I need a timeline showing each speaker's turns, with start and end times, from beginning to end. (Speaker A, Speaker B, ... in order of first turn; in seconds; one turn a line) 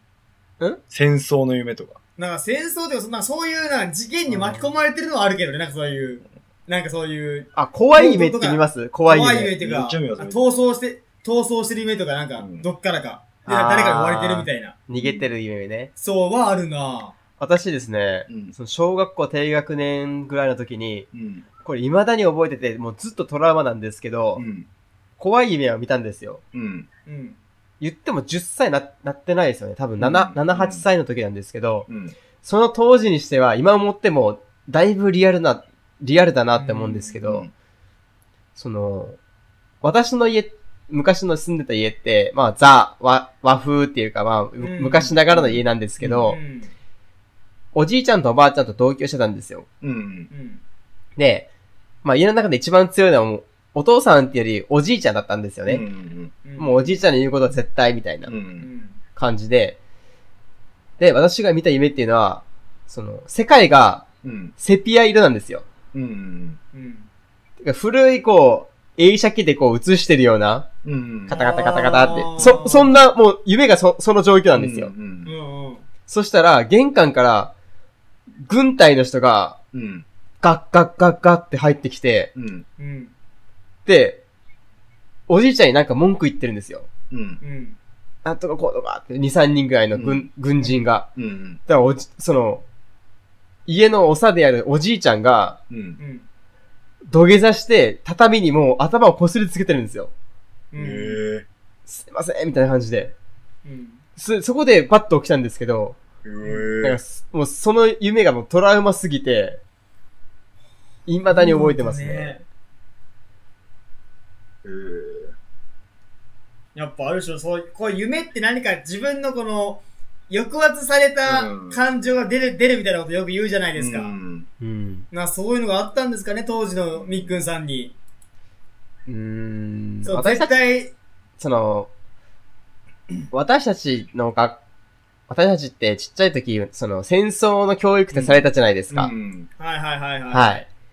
Speaker A: 0.9-2.0
Speaker B: 2.2-14.8
Speaker C: 4.3-4.7
Speaker C: 7.5-9.5
Speaker A: 9.6-10.4
Speaker A: 12.4-12.7
Speaker C: 13.4-15.9
Speaker A: 14.9-15.3
Speaker B: 16.0-17.2
Speaker C: 17.4-21.1
Speaker A: 18.3-18.5
Speaker A: 21.1-21.4
Speaker C: 21.6-24.4
Speaker A: 24.4-24.7
Speaker C: 25.2-26.4
Speaker A: 26.5-26.9
Speaker B: 27.1-27.4
Speaker C: 27.8-31.9
Speaker A: 30.0-30.8
Speaker A: 31.9-32.1
Speaker C: 32.4-37.4
Speaker B: 36.6-37.2
Speaker A: 37.2-37.5
Speaker C: 38.5-39.2
Speaker C: 39.8-46.4
Speaker B: 44.6-45.2
Speaker A: 45.4-46.3
Speaker B: 46.3-46.7
Speaker C: 47.7-49.7
Speaker A: 49.8-50.3
Speaker B: 50.3-50.6
Speaker C: 51.2-51.5
Speaker C: 52.0-55.8
Speaker A: 55.7-56.3
Speaker B: 56.4-57.0
Speaker C: 56.6-58.3
Speaker A: 58.3-58.7
Speaker B: 58.6-59.0
Speaker C: 59.1-59.8
Speaker C: 61.0-64.0
Speaker A: 64.2-64.5
Speaker C: 64.6-65.7
Speaker A: 65.9-66.6
Speaker B: 66.7-67.1
Speaker C: 67.6-70.7
Speaker A: 70.8-71.3
Speaker C: 71.3-74.9
Speaker B: 71.3-72.9
Speaker A: 74.5-75.3
Speaker B: 75.2-75.8
Speaker C: 76.1-77.5
Speaker C: 78.4-79.6
Speaker A: 79.7-80.0
Speaker C: 80.4-82.3
Speaker A: 82.3-82.6
Speaker B: 82.8-83.1
Speaker C: 83.8-84.2
Speaker C: 85.3-86.9
Speaker A: 87.1-87.4
Speaker B: 87.4-87.8
Speaker C: 88.2-91.1
Speaker A: 89.9-90.3
Speaker A: 91.2-91.6
Speaker C: 91.7-92.6
Speaker C: 93.7-95.6
Speaker A: 95.7-96.0
Speaker B: 96.0-96.2
Speaker C: 97.1-100.1
Speaker B: 100.7-101.2
Speaker A: 100.8-101.5
Speaker C: 101.9-103.1
Speaker B: 103.6-104.0
Speaker C: 104.2-106.0
Speaker A: 106.2-107.0
Speaker C: 106.8-109.6
Speaker C: 111.1-112.4
Speaker B: 111.3-112.4
Speaker A: 114.6-115.3
Speaker B: 116.7-124.1
Speaker A: 121.2-121.8
Speaker A: 123.8-124.5
Speaker C: 124.6-125.1
Speaker B: 125.1-127.9
Speaker A: 126.9-127.4
Speaker C: 129.1-130.5
Speaker B: 130.0-130.9
Speaker C: 131.4-131.9
Speaker C: 133.3-134.6
Speaker C: 135.3-139.1
Speaker A: 138.1-139.5
Speaker B: 139.6-140.7
Speaker C: 140.3-140.6